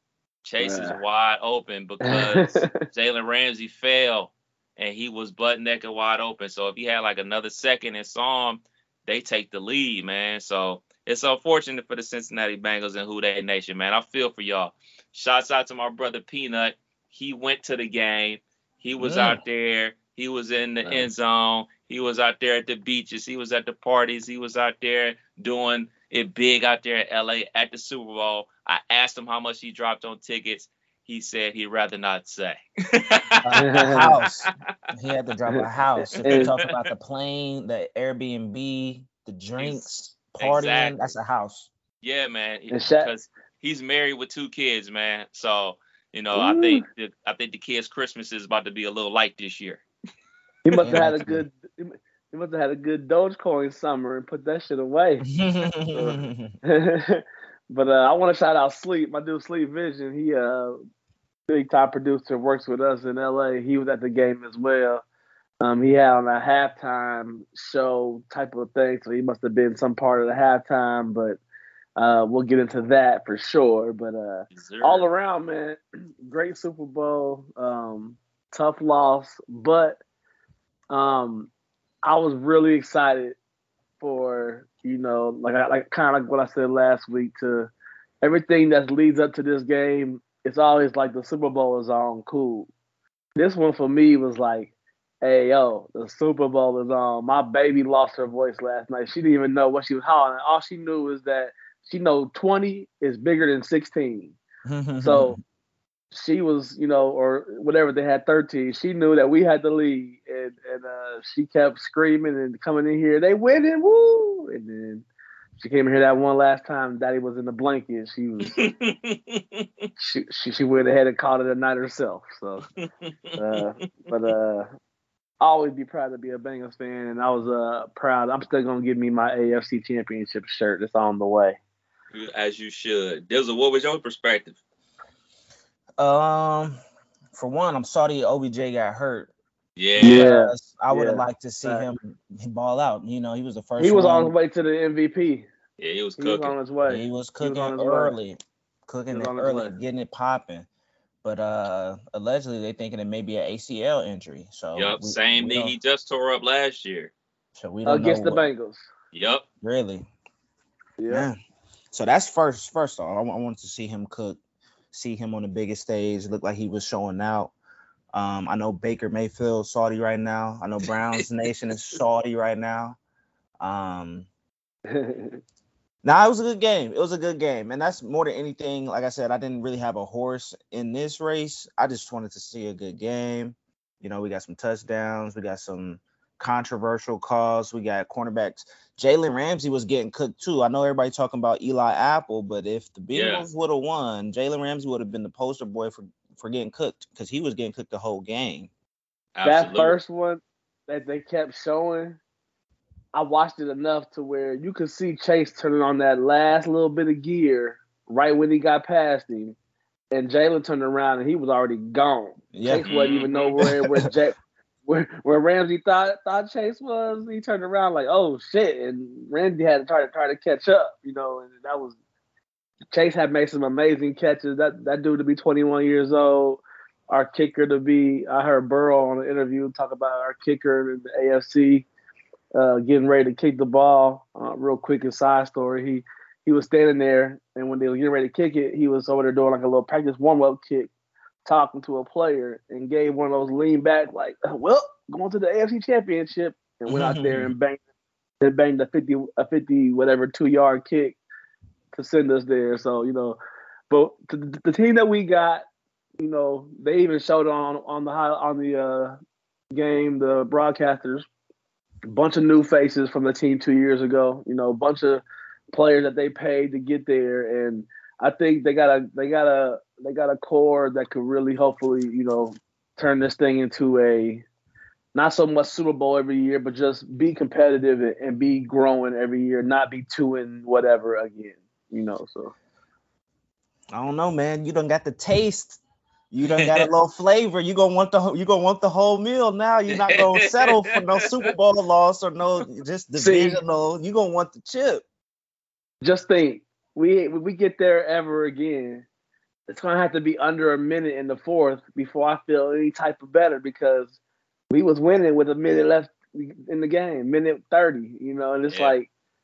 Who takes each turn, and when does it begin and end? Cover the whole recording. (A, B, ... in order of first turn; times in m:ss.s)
0:00.4-0:34.9 A
0:00.6-0:01.0 B
0:02.0-0:02.8 B
0:19.0-0:19.4 C
0:33.4-0:41.7 C
0:33.5-0:34.1 B
0:35.5-0:36.5 B
0:36.2-0:36.8 A
0:39.6-0:41.0 A
0:42.0-0:49.8 A
0:42.7-0:43.1 B
0:46.3-0:46.8 B
0:50.6-0:55.3 B
0:50.8-0:51.4 C
0:55.3-0:56.5 C
0:55.9-1:00.8 B
1:01.5-1:05.0 B
1:05.6-1:11.4 B
1:12.0-1:20.0 B
1:14.5-1:15.1 A
1:20.9-1:21.5 B
1:22.0-1:23.4 B
1:24.0-1:27.7 B
1:28.2-1:32.7 B
1:33.4-1:44.4 B
1:44.7-1:45.4 C
1:45.0-1:45.4 B
1:46.1-1:55.0 B
1:55.6-1:58.6 B
1:58.5-1:59.9 A
2:00.0-2:02.6 B
2:02.8-2:03.6 A
2:03.4-2:04.7 B
2:05.4-2:11.6 B
2:12.1-2:14.6 A
2:16.0-2:16.8 C
2:17.3-2:19.3 C
2:19.8-2:20.3 A
2:20.0-2:24.3 C
2:20.0-2:21.9 B
2:23.8-2:25.5 B
2:25.8-2:26.6 A
2:26.2-2:28.2 B
2:26.9-2:30.7 C
2:29.1-2:29.8 B
2:31.2-2:35.7 C
2:34.8-2:37.1 A
2:37.6-2:38.5 C
2:37.9-2:38.9 B
2:39.1-2:39.4 A
2:39.6-2:40.0 C
2:41.0-2:41.3 B
2:41.1-2:41.4 C
2:41.9-2:44.4 C
2:44.9-2:47.5 C
2:48.1-2:53.0 C
2:53.6-2:54.3 C
2:54.9-2:55.4 B
2:56.0-3:18.7 C
3:13.1-3:13.5 A
3:19.4-3:20.0 A
3:19.4-3:22.2 B
3:23.1-3:29.6 B
3:30.1-3:42.0 B
3:32.5-3:32.9 C
3:32.8-3:33.6 A
3:33.6-3:34.1 C
3:42.9-3:51.9 B
3:52.6-4:00.9 B
4:01.4-4:07.8 B
4:06.9-4:07.5 C
4:08.4-4:11.2 B
4:11.9-4:13.4 B
4:13.9-4:15.6 B
4:16.2-4:19.2 B
4:19.8-4:21.3 B
4:22.1-4:34.4 B
4:35.1-4:42.5 B
4:43.9-4:45.8 C
4:46.3-4:55.0 C
4:46.5-4:46.9 A
4:49.9-4:51.5 A
4:53.2-4:53.6 B
4:56.0-4:59.1 B
4:59.7-5:04.2 B
5:04.7-5:09.1 B
5:08.7-5:09.0 A